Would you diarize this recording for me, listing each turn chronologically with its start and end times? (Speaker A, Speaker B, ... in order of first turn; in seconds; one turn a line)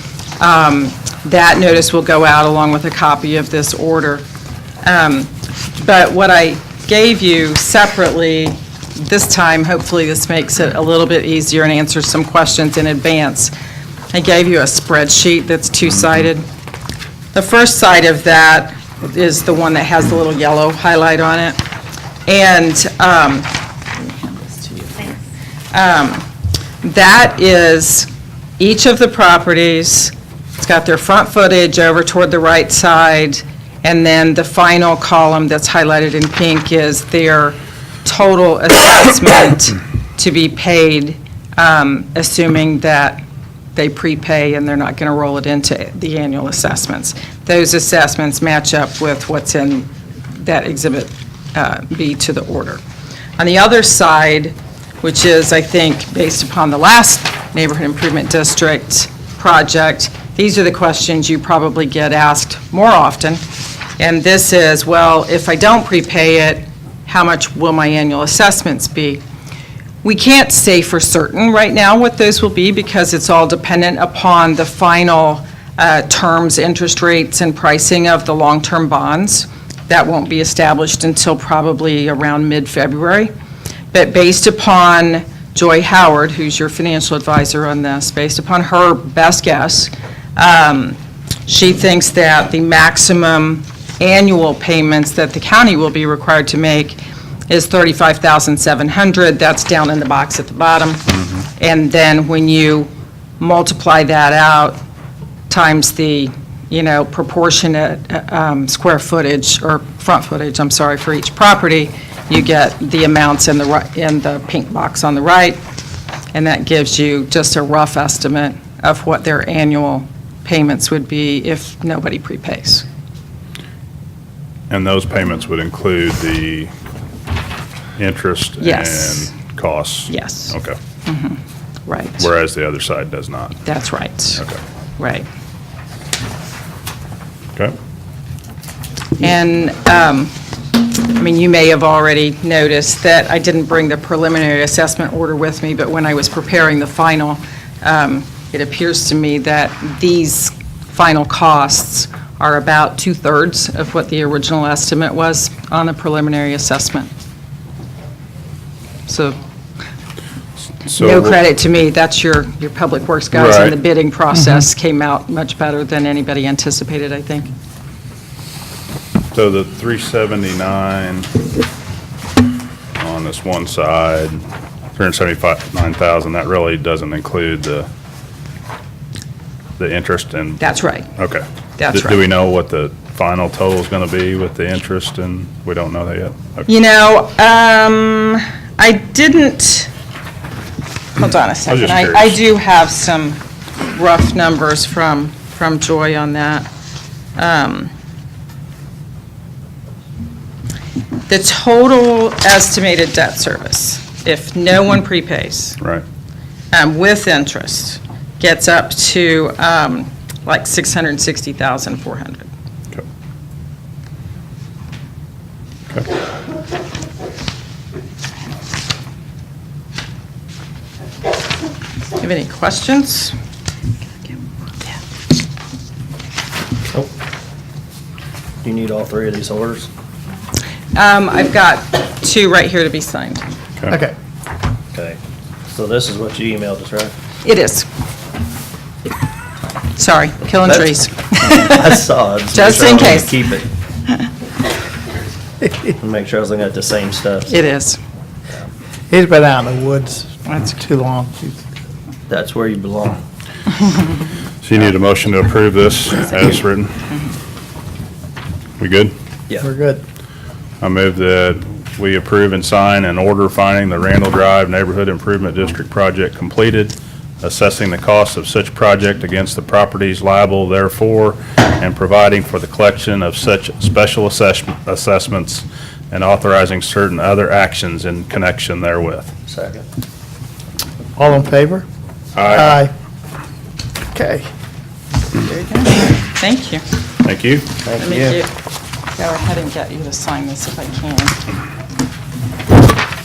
Speaker A: 0.4-4.2
Speaker A: 4.8-13.5
Speaker A: 14.1-16.4
Speaker A: 17.3-21.6
Speaker A: 22.3-25.2
Speaker A: 25.7-26.3
Speaker A: 26.8-43.2
Speaker A: 43.8-52.8
Speaker A: 53.4-63.4
Speaker A: 64.0-69.2
Speaker A: 70.0-83.3
Speaker A: 83.9-104.8
Speaker A: 105.5-115.6
Speaker A: 116.3-122.8
Speaker B: 124.7-126.7
Speaker B: 128.0-130.8
Speaker A: 128.6-129.3
Speaker A: 130.1-132.2
Speaker B: 132.2-133.6
Speaker A: 133.7-134.4
Speaker A: 135.0-135.3
Speaker A: 139.2-140.3
Speaker A: 140.8-157.1
Speaker A: 159.1-159.4
Speaker B: 160.9-161.4
Speaker A: 160.9-167.5
Speaker B: 163.3-163.8
Speaker B: 169.3-171.3
Speaker B: 173.0-174.4
Speaker B: 175.0-177.9
Speaker B: 179.8-180.6
Speaker A: 180.6-181.1
Speaker B: 181.2-186.7
Speaker A: 181.8-182.2
Speaker A: 186.7-189.9
Speaker A: 191.2-196.7
Speaker B: 191.7-192.4
Speaker A: 197.4-197.9
Speaker A: 201.3-205.8
Speaker A: 206.7-212.5
Speaker A: 222.2-223.3
Speaker C: 228.6-229.9
Speaker A: 230.9-233.4
Speaker D: 233.9-234.1
Speaker C: 234.9-237.1
Speaker A: 237.4-237.9
Speaker A: 240.0-242.0
Speaker C: 240.7-240.9
Speaker C: 241.5-243.7
Speaker A: 242.5-243.4
Speaker C: 246.0-247.5
Speaker A: 247.5-248.0
Speaker D: 249.1-251.6
Speaker C: 252.3-253.2
Speaker B: 254.6-257.1
Speaker B: 258.8-259.1
Speaker D: 259.6-260.0
Speaker B: 260.8-279.3
Speaker C: 279.5-279.9
Speaker D: 281.2-281.9
Speaker B: 282.4-282.8
Speaker D: 282.5-282.9
Speaker D: 284.1-284.5
Speaker A: 285.4-286.8
Speaker B: 287.2-287.7
Speaker C: 287.8-288.4
Speaker A: 288.0-288.5
Speaker A: 289.1-291.4